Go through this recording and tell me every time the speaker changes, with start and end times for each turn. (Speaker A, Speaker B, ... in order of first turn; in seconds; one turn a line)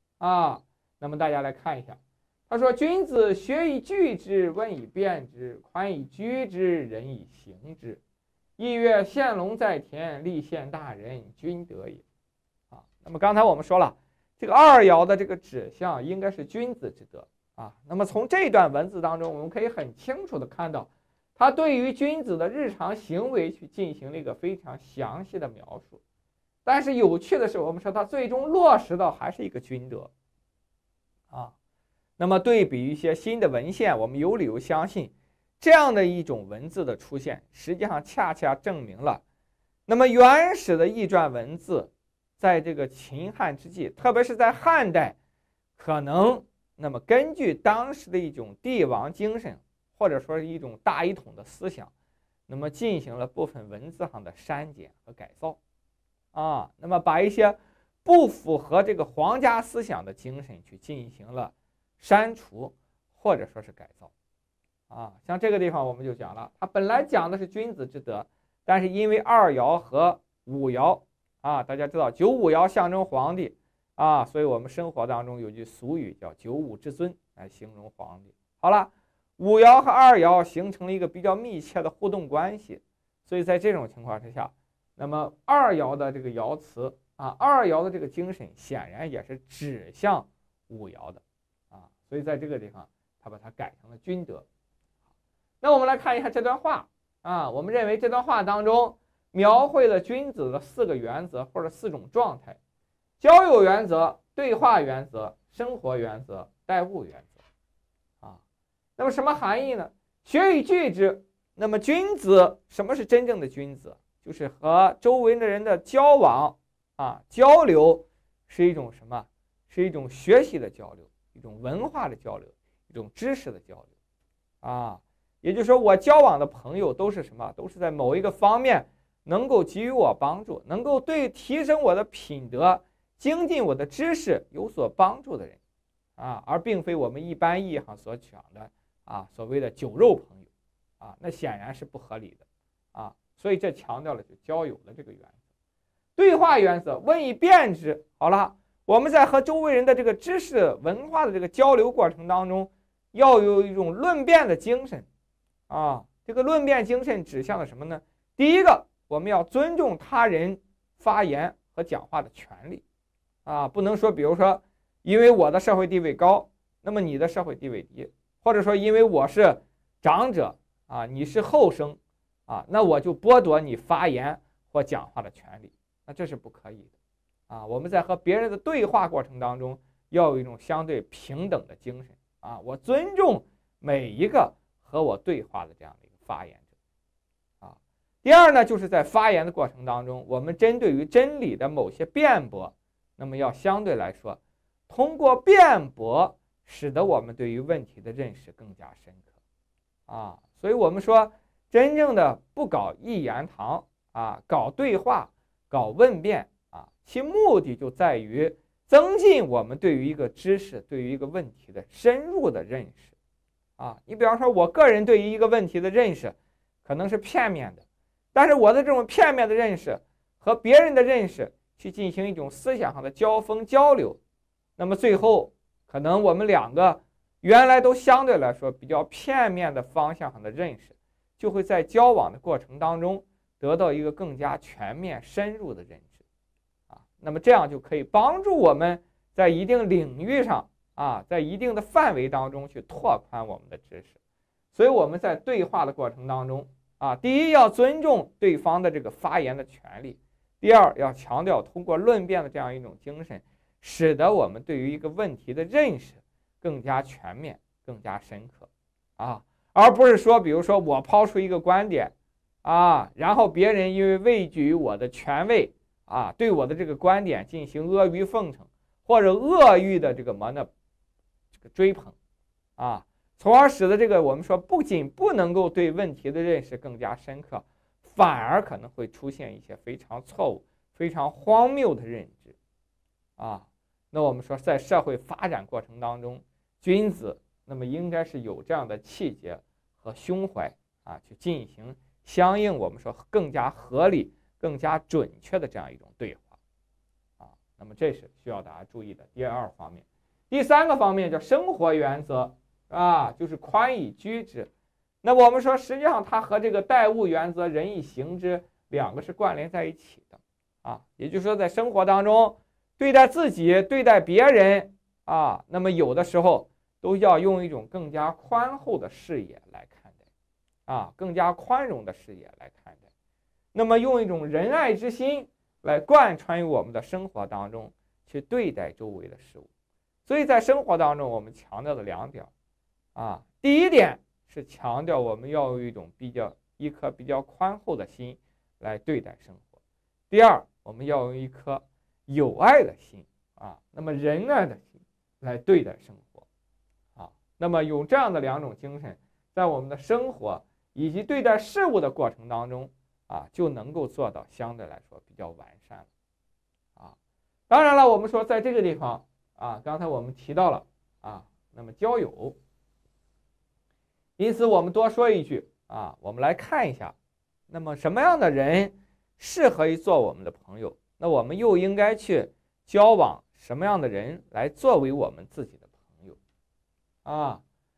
Speaker A: 0.2-8.0
Speaker A: 8.6-12.0
Speaker A: 12.7-26.0
Speaker A: 26.6-30.1
Speaker A: 32.2-39.2
Speaker A: 39.9-45.1
Speaker A: 45.8-51.9
Speaker A: 52.5-55.6
Speaker A: 56.3-64.1
Speaker A: 64.9-94.5
Speaker A: 95.6-102.6
Speaker A: 103.2-107.4
Speaker A: 109.0-123.9
Speaker A: 124.6-135.6
Speaker A: 136.2-140.5
Speaker A: 141.0-142.4
Speaker A: 142.9-145.3
Speaker A: 146.2-155.1
Speaker A: 155.7-162.8
Speaker A: 163.4-176.9
Speaker A: 177.5-186.6
Speaker A: 187.6-199.2
Speaker A: 200.1-213.1
Speaker A: 213.8-224.2
Speaker A: 224.8-236.2
Speaker A: 236.9-244.2
Speaker A: 244.7-270.7
Speaker A: 271.6-272.1
Speaker A: 272.8-282.6
Speaker A: 283.4-296.5
Speaker A: 297.4-304.7
Speaker A: 305.2-320.1
Speaker A: 320.9-323.0
Speaker A: 323.7-329.7
Speaker A: 330.2-332.5
Speaker A: 333.1-339.7
Speaker A: 340.3-346.4
Speaker A: 347.1-356.1
Speaker A: 357.7-362.6
Speaker A: 364.4-367.1
Speaker A: 367.7-376.4
Speaker A: 377.2-377.6